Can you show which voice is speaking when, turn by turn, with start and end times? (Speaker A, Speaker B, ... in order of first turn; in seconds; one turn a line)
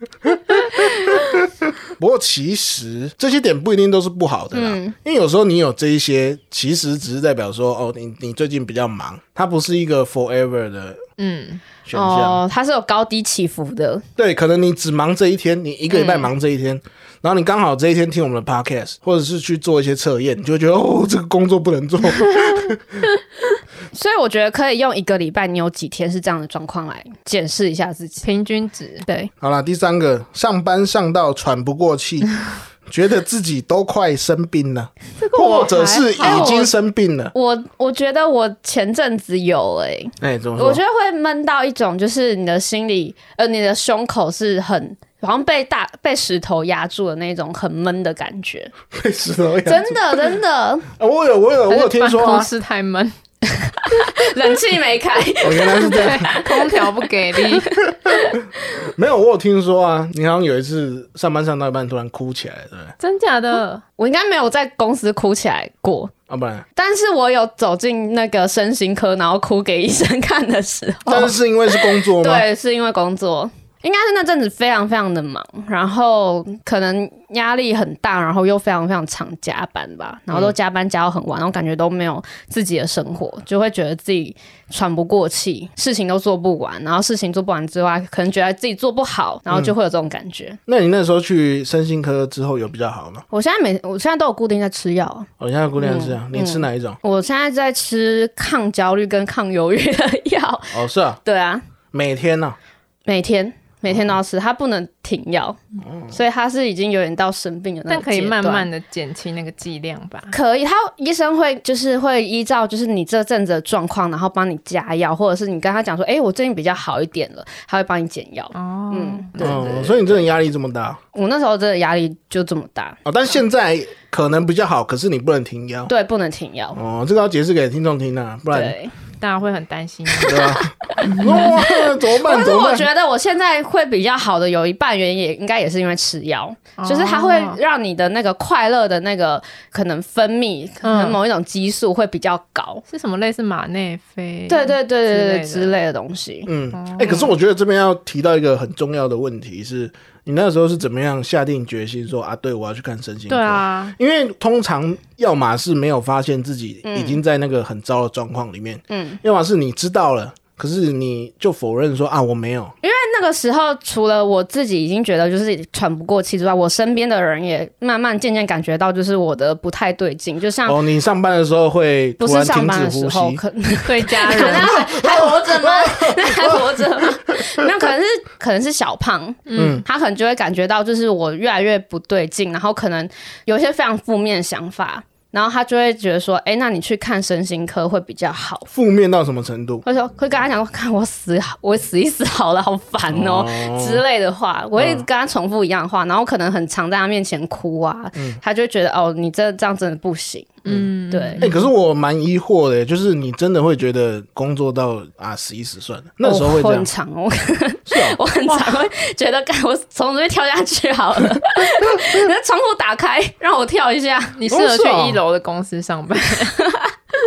Speaker A: 0.2-11.0
Speaker B: 4.5-4.9
Speaker C: 11.2-11.7
Speaker A: 11.8-12.4
Speaker B: 11.9-14.0
Speaker A: 14.2-23.1
Speaker B: 15.9-16.3
Speaker B: 23.9-28.3
Speaker C: 28.2-29.1
Speaker A: 29.4-32.3
Speaker A: 32.9-37.3
Speaker C: 35.2-36.7
Speaker B: 36.2-36.7
Speaker B: 37.3-48.7
Speaker A: 40.2-40.8
Speaker A: 48.9-50.2
Speaker B: 49.6-50.9
Speaker A: 51.0-52.5
Speaker C: 51.7-53.1
Speaker B: 53.9-56.9
Speaker A: 55.4-56.4
Speaker C: 55.9-57.7
Speaker B: 57.5-58.4
Speaker A: 58.0-62.9
Speaker C: 63.0-63.8
Speaker B: 64.0-66.1
Speaker A: 66.3-66.7
Speaker B: 66.8-90.6
Speaker A: 71.1-72.5
Speaker A: 90.7-93.2
Speaker B: 93.3-101.6
Speaker A: 95.4-97.0
Speaker A: 100.7-101.2
Speaker A: 101.9-102.6
Speaker B: 103.1-105.6
Speaker A: 105.8-106.2
Speaker B: 106.1-108.7
Speaker C: 107.9-110.3
Speaker B: 110.3-120.2
Speaker C: 118.5-119.6
Speaker A: 119.4-121.0
Speaker B: 121.1-123.0
Speaker A: 123.0-125.9
Speaker B: 125.9-126.8
Speaker A: 126.8-128.8
Speaker B: 128.5-128.9
Speaker C: 129.2-131.5
Speaker B: 130.2-142.8
Speaker A: 130.2-132.9
Speaker C: 136.8-137.6
Speaker C: 140.8-141.2
Speaker C: 142.9-145.7
Speaker B: 144.5-146.5
Speaker A: 146.5-162.7
Speaker C: 146.7-147.3
Speaker C: 153.3-154.0
Speaker B: 156.8-157.2
Speaker B: 158.9-159.2
Speaker B: 162.8-170.8
Speaker A: 170.7-173.4
Speaker B: 172.2-188.7
Speaker C: 173.8-174.8
Speaker A: 174.3-177.7
Speaker C: 179.5-179.8
Speaker A: 179.6-179.8
Speaker A: 188.7-189.8
Speaker B: 189.8-201.5
Speaker A: 193.1-194.0
Speaker A: 194.8-195.1
Speaker C: 200.7-201.6
Speaker A: 200.7-206.9
Speaker B: 206.2-214.4
Speaker A: 207.9-208.2
Speaker C: 208.5-208.8
Speaker A: 211.8-212.3
Speaker C: 214.4-216.6
Speaker A: 214.5-215.2